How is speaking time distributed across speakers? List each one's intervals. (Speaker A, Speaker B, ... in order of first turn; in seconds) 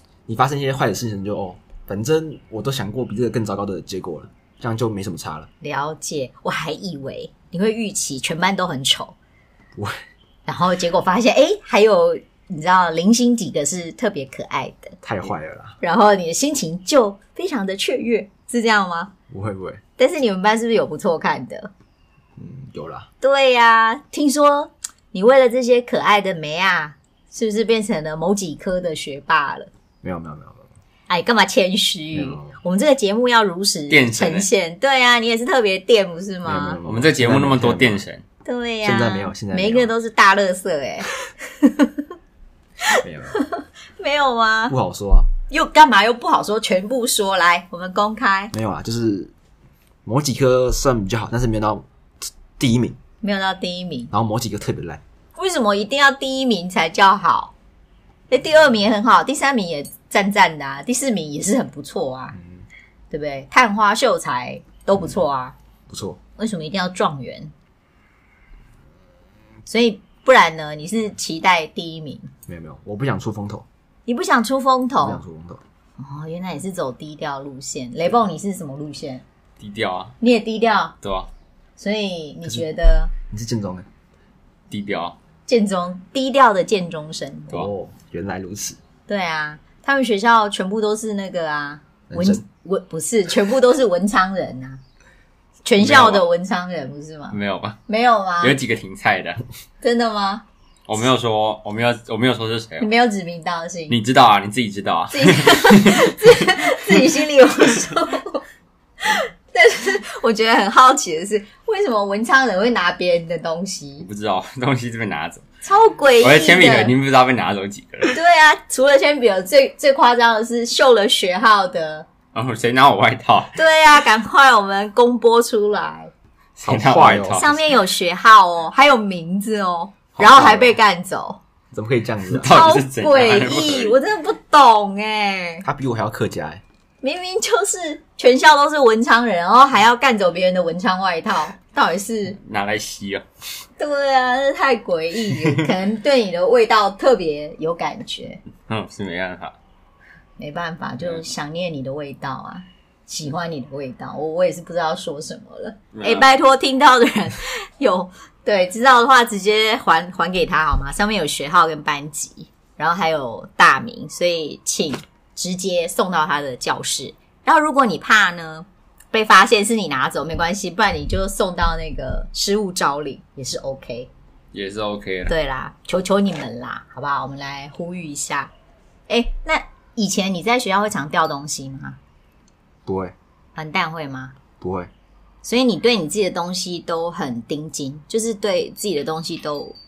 Speaker A: 0.3-5.5, 9.7-10.0, 15.0-15.8, 19.3-19.8, 22.4-23.1, 30.0-30.7, 32.1-32.6, 36.4-38.0, 38.8-39.9, 43.0-43.4, 44.7-45.3, 48.5-49.3, 50.0-53.0, 54.1-55.0, 62.4-62.6, 65.9-66.2, 72.5-73.7, 75.0-75.6, 83.3-83.9, 87.5-88.8, 92.1-92.4, 126.6-127.5, 130.2-130.8, 131.7-132.5, 135.6-136.6, 182.9-183.1, 184.6-184.9
Speaker B: 5.6-9.1, 10.5-15.0, 15.8-19.1, 20.0-21.7, 23.2-29.7, 31.1-36.8, 38.4-42.0, 43.3-44.7, 45.5-48.5, 53.2-54.1, 55.4-57.5, 58.3-62.4, 63.1-65.5, 66.4-67.5, 69.7-72.3, 74.1-75.2, 76.0-79.2, 80.2-81.0, 81.8-83.1, 85.5-87.7, 89.1-94.8, 95.7-97.4, 97.9-98.5, 99.8-100.4, 102.8-104.0, 105.1-108.4, 109.0-114.1, 115.6-116.9, 118.1-122.0, 123.5-126.1, 127.3-131.4, 132.4-135.6, 137.0-142.4, 143.8-148.4, 150.4-174.1, 175.3-178.5, 179.1-182.0, 183.6-184.3, 185.4-189.8
Speaker C: 33.9-34.5, 36.9-38.2, 79.6-80.2, 81.0-81.3, 84.7-85.2, 95.8-96.2, 97.3-97.8, 98.4-99.4, 100.9-102.9, 103.9-106.3, 114.0-115.4, 116.2-118.2, 122.3-123.5, 126.6-127.5, 132.3-133.9, 142.4-143.2, 148.7-149.6, 155.9-156.3, 174.5-175.3